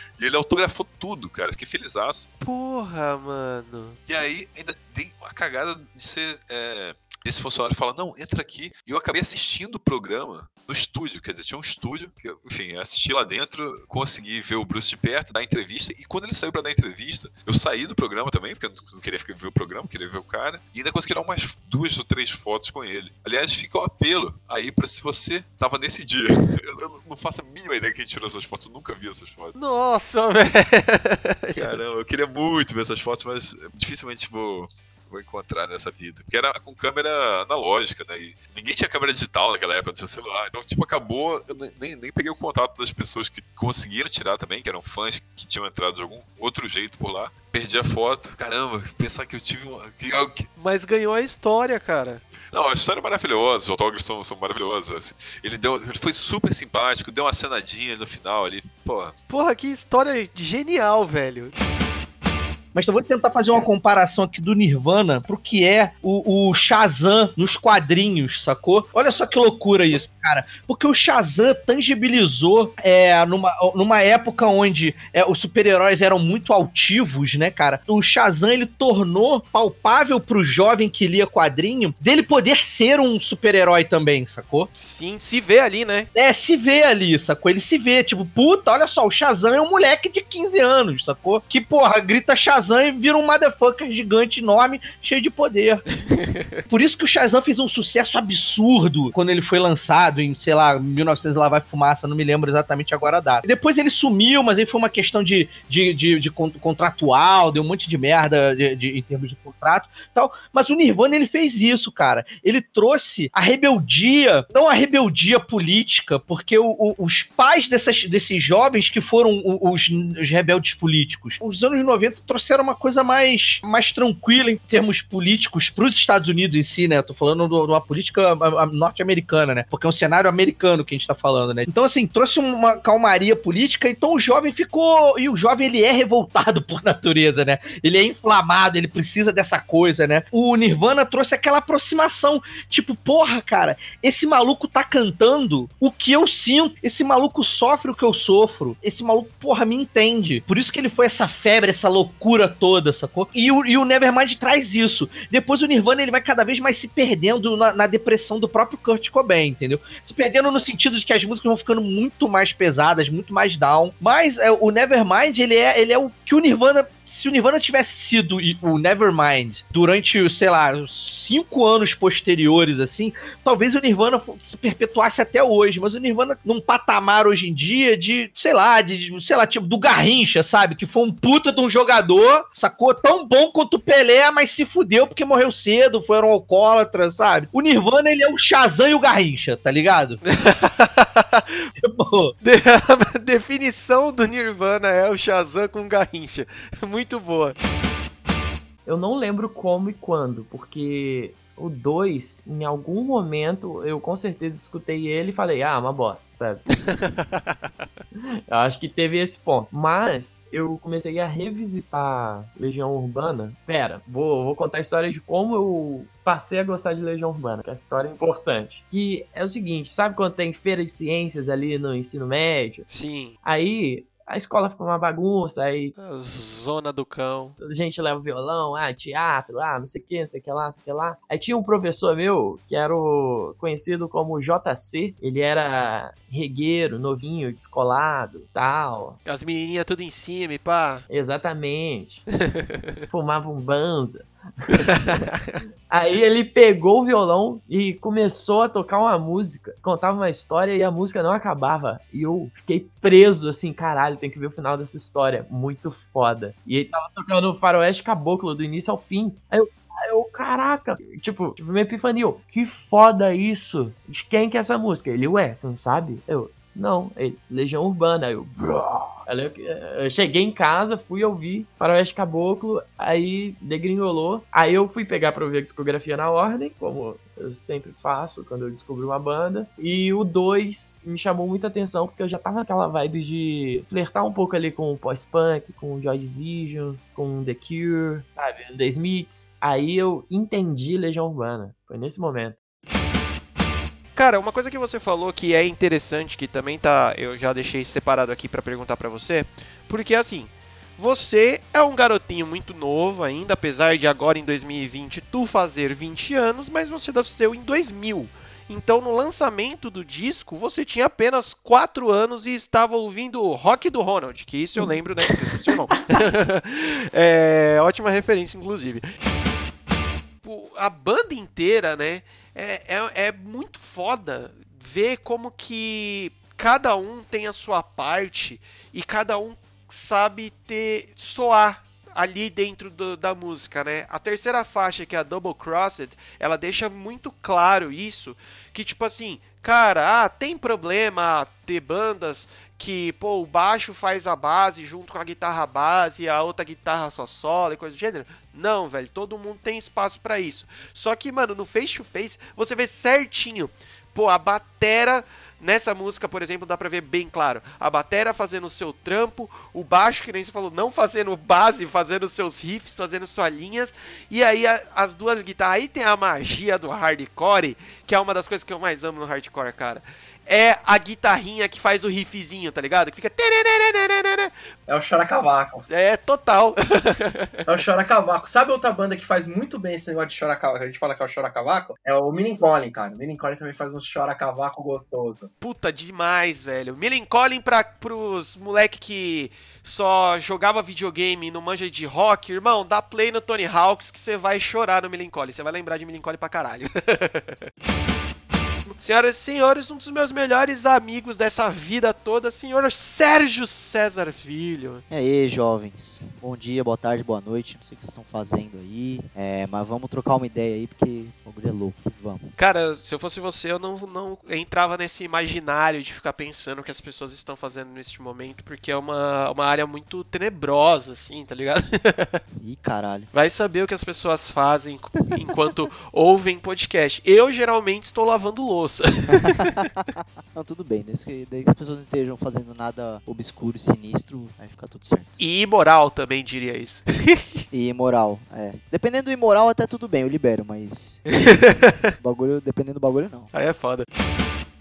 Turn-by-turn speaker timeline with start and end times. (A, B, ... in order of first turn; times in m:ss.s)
0:00.2-0:02.3 A
0:02.4-0:04.0 B
0:04.1-0:29.6 A
0:29.6-0:31.8 B
0:31.6-0:50.5 A
0:50.6-0:52.2 B
0:52.5-0:59.1 A
0:59.3-1:01.5 B
1:02.7-1:24.7 C
1:24.7-1:26.1 B
1:26.1-1:35.8 C
1:36.1-1:36.6 B
1:36.7-3:10.2 C
3:10.2-3:11.7 B
3:11.8-3:12.3 C
3:12.4-3:17.5 B
3:18.8-3:26.6 D
3:26.9-3:27.6 B
3:28.5-3:42.8 D
3:42.9-3:43.3 B
3:43.4-3:45.9 D
3:46.0-3:47.5 B
3:47.6-3:59.2 D
3:59.2-4:01.0 B
4:01.1-4:02.3 D
4:03.1-4:05.0 D
4:05.9-4:52.6 D
4:54.2-5:19.0 B
5:20.4-6:14.5 B
6:14.9-6:15.8 E
6:15.9-6:17.5 B
6:17.7-6:25.5 E
6:25.6-6:37.6 B
6:39.0-6:45.0 B
6:45.1-6:52.4 F
6:52.6-7:02.4 B
7:02.6-7:03.3 F
7:03.3-7:09.6 B
7:09.4-7:09.8 F
7:10.5-7:15.3 F
7:15.4-7:17.6 B
7:17.7-7:21.3 F
7:21.3-7:22.1 B
7:22.2-7:23.5 F
7:23.5-7:24.0 B